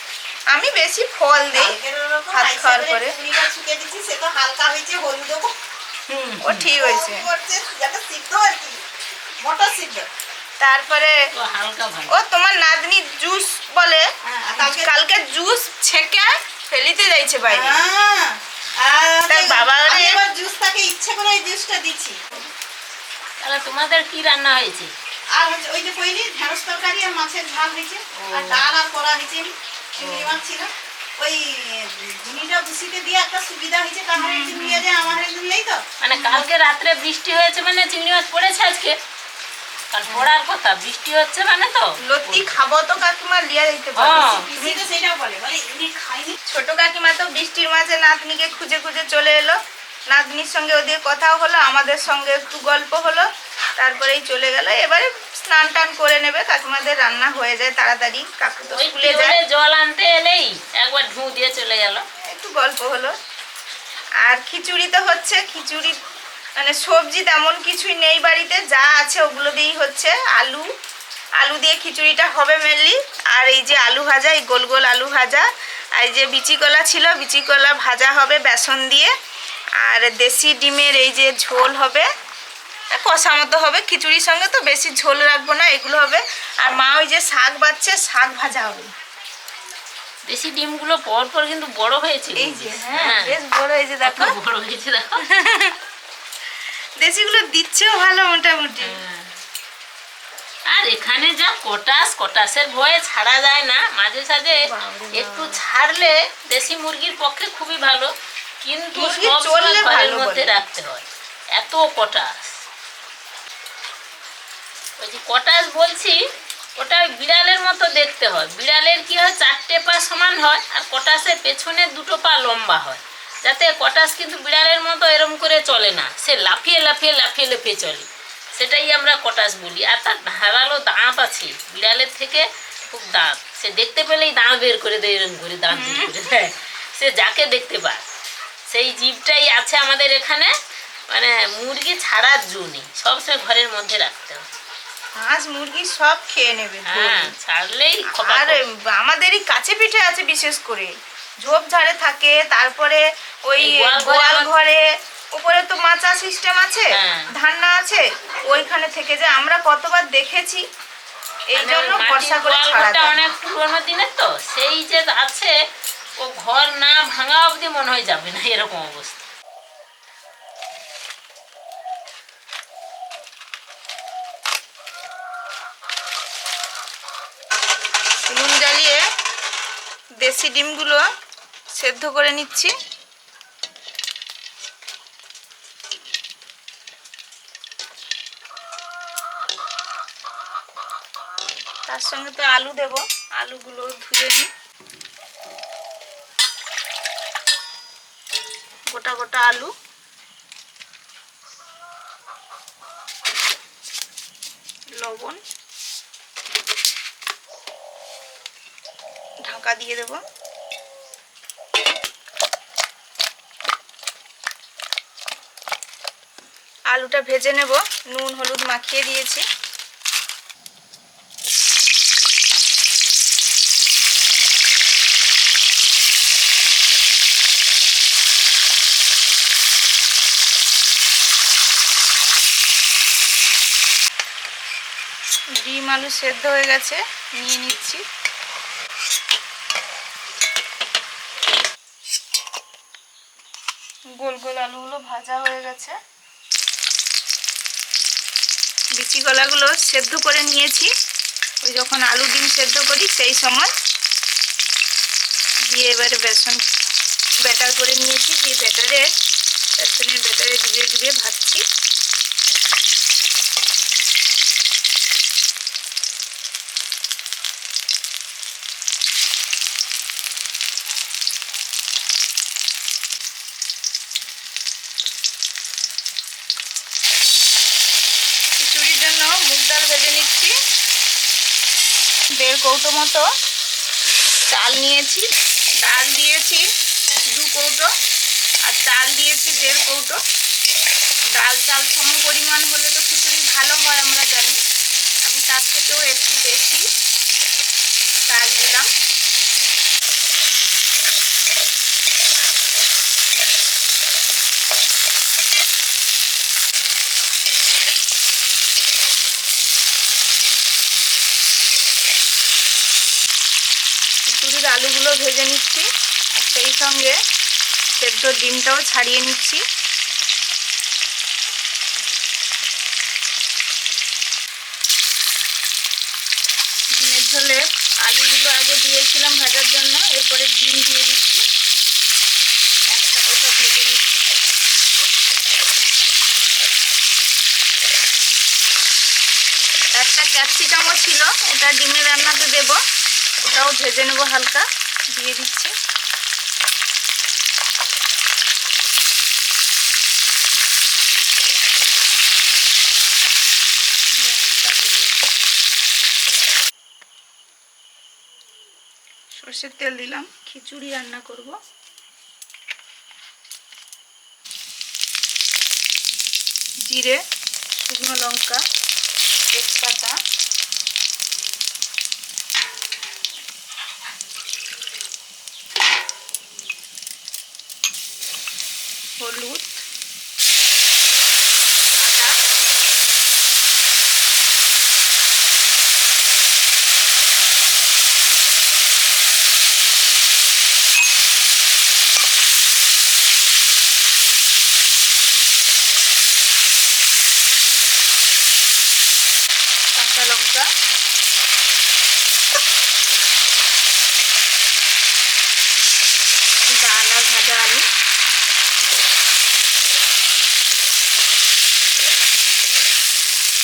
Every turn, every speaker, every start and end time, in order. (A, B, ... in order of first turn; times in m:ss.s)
0:00.5-0:01.8 A
0:01.6-0:05.5 B
0:02.3-0:03.2 A
0:06.1-0:06.6 C
0:06.4-0:07.3 A
0:06.7-0:08.8 B
0:09.4-0:10.1 B
0:10.6-0:11.2 A
0:11.3-0:12.1 C
0:12.1-0:14.0 A
0:14.2-0:14.9 B
0:14.6-0:17.8 A
0:17.4-0:22.2 B
0:19.3-0:20.2 A
0:23.4-0:24.9 C
0:25.3-0:35.8 B
0:28.2-0:28.7 C
0:30.0-0:30.4 C
0:34.2-0:34.8 A
0:36.0-0:39.0 C
0:36.1-0:36.4 A
0:39.9-0:42.6 C
0:42.0-0:44.8 A
0:44.0-0:44.6 C
0:44.1-0:46.4 B
0:46.5-0:49.6 A
0:50.1-0:59.4 A
0:58.7-1:02.0 C
1:02.3-1:03.1 A
1:04.2-1:06.0 A
1:06.6-1:10.6 A
1:11.4-1:19.1 A
1:19.8-1:22.0 A
1:23.0-1:28.9 A
1:30.2-1:33.4 C
1:32.4-1:34.3 A
1:34.0-1:35.2 C
1:35.3-1:35.8 A
1:37.0-1:39.0 A
1:38.8-1:39.3 C
1:40.7-1:44.6 C
1:44.6-1:45.6 A
1:45.1-1:48.1 C
1:48.6-1:52.5 C
1:48.9-1:50.6 A
1:55.0-1:56.2 C
1:56.8-2:18.0 C
2:15.7-2:16.3 A
2:18.7-2:20.5 C
2:21.1-2:24.4 C
2:25.2-2:27.3 A
2:26.9-2:28.6 C
2:28.1-2:30.9 A
2:31.4-2:34.8 A
2:33.6-2:34.5 C
2:35.4-2:40.6 A
2:36.9-2:37.3 C
2:41.5-2:43.2 A
2:41.6-2:45.5 C
2:46.2-2:49.2 C
2:58.3-2:59.0 A
3:00.2-3:01.0 A
3:01.8-3:02.7 A
3:11.8-3:14.5 A
3:18.9-3:19.7 A
3:25.0-3:25.4 A
3:29.4-3:30.2 A
3:36.9-3:39.4 A
3:55.6-3:58.0 A
4:04.2-4:05.9 A
4:09.0-4:10.9 A
4:11.6-4:13.7 A
4:15.7-4:16.6 A
4:17.4-4:19.0 A
4:19.8-4:21.6 A
4:38.6-4:40.5 A
4:42.4-4:43.2 A
4:44.5-4:45.2 A
4:45.8-4:46.6 A
4:47.3-4:47.9 A
4:48.6-4:50.2 A
4:51.3-4:54.6 A
4:55.2-4:56.8 A
4:58.3-4:58.9 A
5:14.2-5:17.2 A
5:18.0-5:19.6 A
5:27.0-5:31.4 A
5:32.9-5:34.2 A
5:39.9-5:42.8 A
5:43.4-5:45.7 A
5:54.2-5:55.2 A
5:59.4-6:01.6 A
6:06.8-6:07.2 A
6:07.8-6:08.6 A
6:09.5-6:10.2 A
6:19.2-6:19.8 A
6:22.0-6:22.4 A
6:39.9-6:40.7 A
6:46.7-6:47.8 A